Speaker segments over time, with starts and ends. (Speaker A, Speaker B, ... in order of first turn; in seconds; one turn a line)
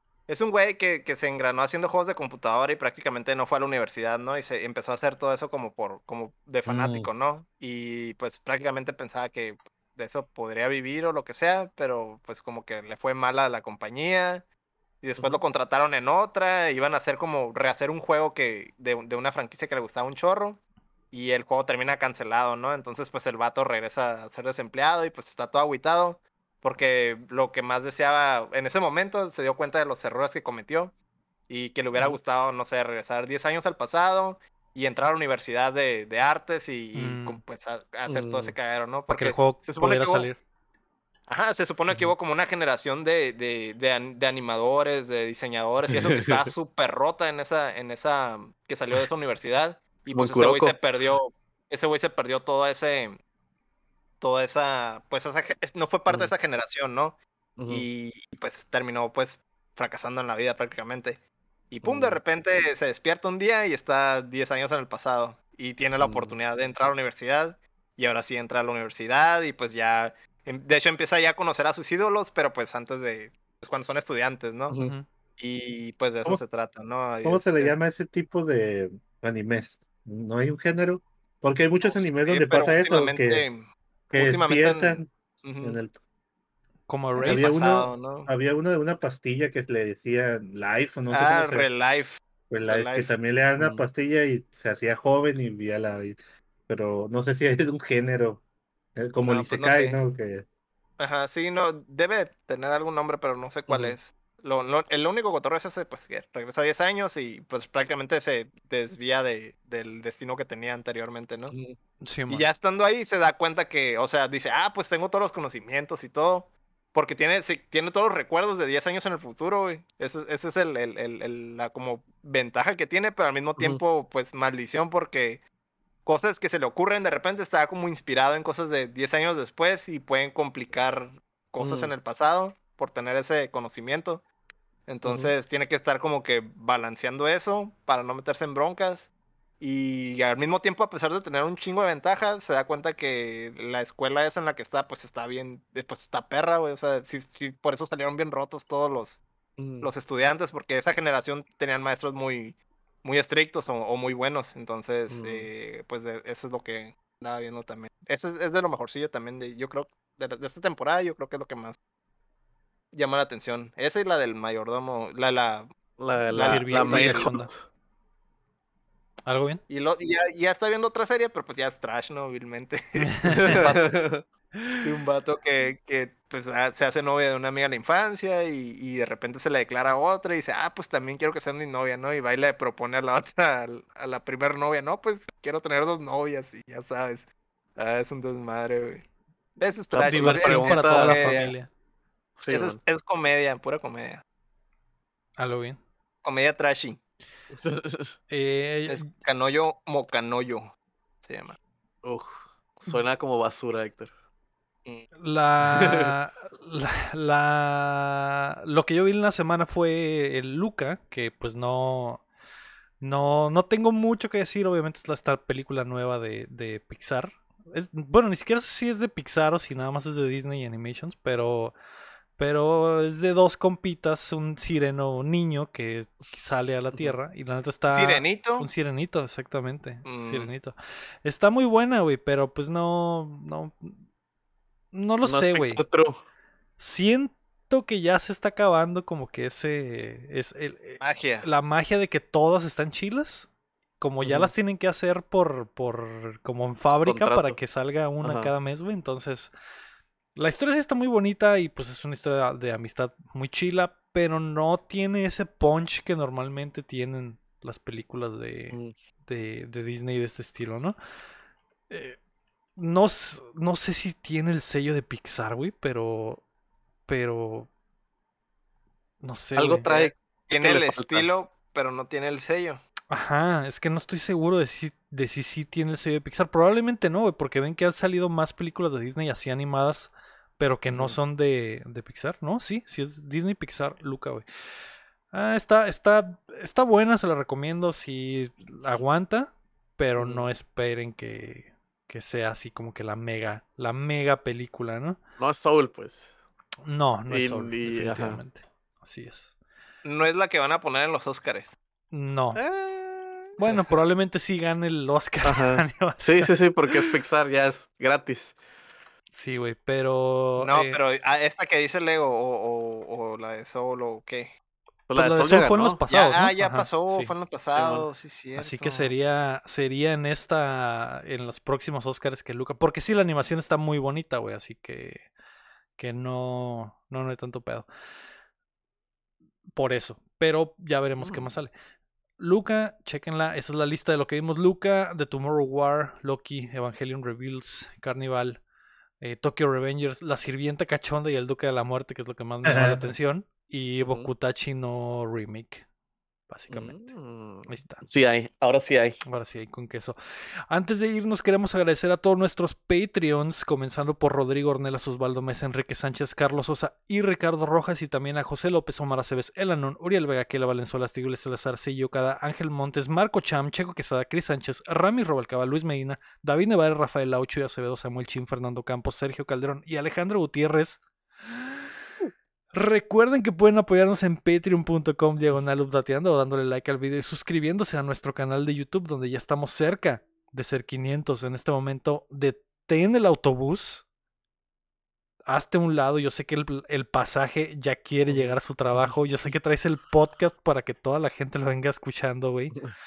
Speaker A: 0.3-14.4
Speaker B: 6.7-7.1
Speaker A: 15.0-20.6
Speaker A: 21.1-30.9
Speaker A: 31.5-40.3
Speaker C: 37.0-37.4
Speaker D: 38.1-38.6
Speaker C: 39.1-40.4
Speaker A: 41.3-53.2
Speaker D: 50.1-50.8
Speaker A: 54.2-74.8
Speaker D: 56.1-56.3
Speaker D: 57.6-57.9
Speaker D: 61.8-62.2
Speaker D: 66.0-66.4
Speaker D: 74.7-75.0
Speaker C: 74.8-75.0
Speaker A: 75.4-77.8
Speaker B: 77.2-83.5
Speaker A: 81.8-85.8
Speaker B: 84.1-86.0
Speaker C: 86.9-87.5
Speaker A: 87.2-88.3
Speaker B: 87.2-91.7
Speaker A: 91.1-93.1
Speaker B: 92.5-98.4
Speaker D: 93.6-93.8
Speaker B: 99.0-100.5
Speaker A: 99.3-100.0
Speaker A: 101.0-111.5
Speaker D: 103.7-104.0
Speaker D: 111.5-111.8
Speaker C: 112.0-112.5
Speaker A: 112.3-125.4
Speaker A: 126.0-134.2
Speaker D: 131.6-131.9
Speaker A: 134.9-149.2
Speaker D: 135.0-135.3
Speaker D: 149.6-149.9
Speaker A: 149.8-161.8
Speaker D: 155.1-155.5
Speaker A: 162.9-165.7
Speaker D: 166.0-167.7
Speaker A: 166.3-167.4
Speaker C: 166.4-167.5
Speaker C: 169.3-169.6
Speaker A: 169.7-173.9
Speaker C: 173.0-173.6
Speaker D: 173.3-174.2
Speaker A: 174.8-189.0
Speaker A: 189.6-191.5
Speaker D: 189.9-191.3
Speaker C: 190.0-191.7
Speaker D: 192.4-192.8
Speaker A: 192.5-194.2
Speaker C: 195.4-195.8
Speaker A: 196.2-197.0
Speaker D: 197.5-198.2
Speaker C: 198.3-199.1
Speaker A: 198.9-200.7
Speaker A: 201.2-201.6
Speaker D: 202.0-204.1
Speaker C: 205.2-212.2
Speaker D: 205.7-206.1
Speaker C: 213.0-221.7
Speaker C: 222.4-234.0
Speaker A: 227.9-228.7
Speaker A: 230.1-230.5
Speaker C: 234.9-235.8
Speaker D: 235.2-236.2
Speaker C: 236.8-249.5
Speaker A: 241.0-241.5
Speaker D: 244.2-244.5
Speaker D: 247.1-247.6
Speaker D: 248.2-248.5
Speaker C: 250.4-261.0
Speaker C: 261.9-262.2
Speaker C: 262.8-266.4
Speaker C: 267.1-267.7
Speaker C: 269.2-270.1
Speaker D: 269.6-271.3
Speaker A: 269.9-272.8
Speaker C: 273.1-284.5
Speaker D: 280.9-281.2
Speaker C: 285.3-295.2
Speaker D: 290.2-290.5
Speaker D: 295.4-296.3
Speaker C: 296.9-299.5
Speaker D: 297.3-298.4
Speaker A: 300.0-301.8
Speaker C: 302.1-302.6
Speaker D: 302.6-303.9
Speaker C: 303.6-307.1
Speaker D: 305.4-308.6
Speaker C: 309.4-311.0
Speaker A: 310.6-314.5
Speaker D: 315.1-316.0
Speaker C: 315.1-317.3
Speaker A: 316.1-319.1
Speaker D: 317.7-318.1
Speaker C: 318.6-325.3
Speaker C: 326.0-327.9
Speaker C: 329.8-331.7
Speaker D: 331.2-331.5
Speaker C: 332.4-338.6
Speaker C: 339.2-345.9
Speaker B: 342.6-343.1
Speaker D: 344.0-344.3
Speaker C: 346.5-347.0
Speaker D: 346.7-349.2
Speaker C: 347.7-348.0
Speaker C: 349.2-350.2
Speaker C: 350.7-371.0
Speaker C: 372.7-384.1
Speaker C: 385.5-392.8
Speaker D: 388.3-389.5